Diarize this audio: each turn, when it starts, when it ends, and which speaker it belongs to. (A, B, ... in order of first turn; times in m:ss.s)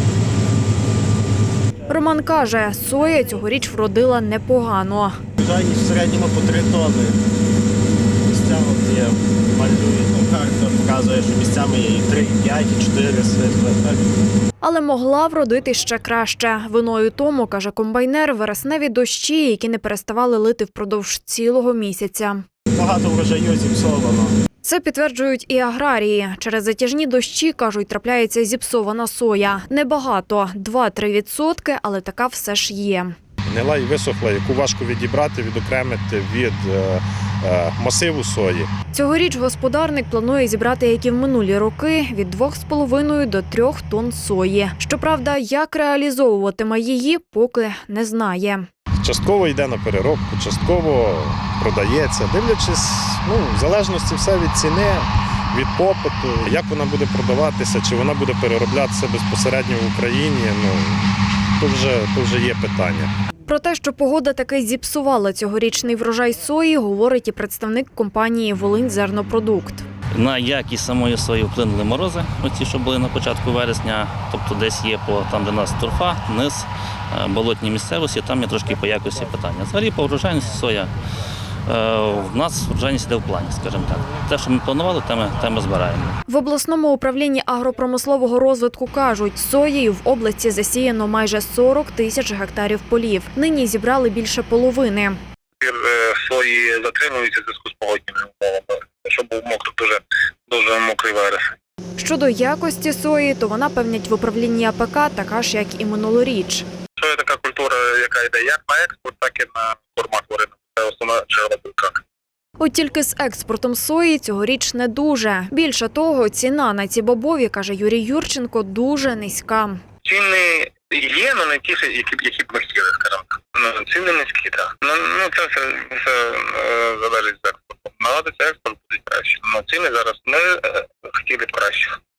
0:01.9-0:05.2 A
0:05.4-0:07.2 B
0:08.3-0:14.0 B
0:14.6-0:22.4 A
0:22.8-0:24.3 B
0:24.6-0:33.2 A
0:33.5-0:38.7 C
0:38.9-0:48.7 A
0:49.0-1:03.1 C
1:03.5-1:09.8 A
1:10.1-1:20.9 D
1:21.7-1:26.2 D
1:26.3-1:35.2 A
1:35.6-1:41.4 E
1:42.0-1:46.6 A
1:47.0-1:52.0 E
1:52.6-1:59.8 A
2:00.0-2:12.0 E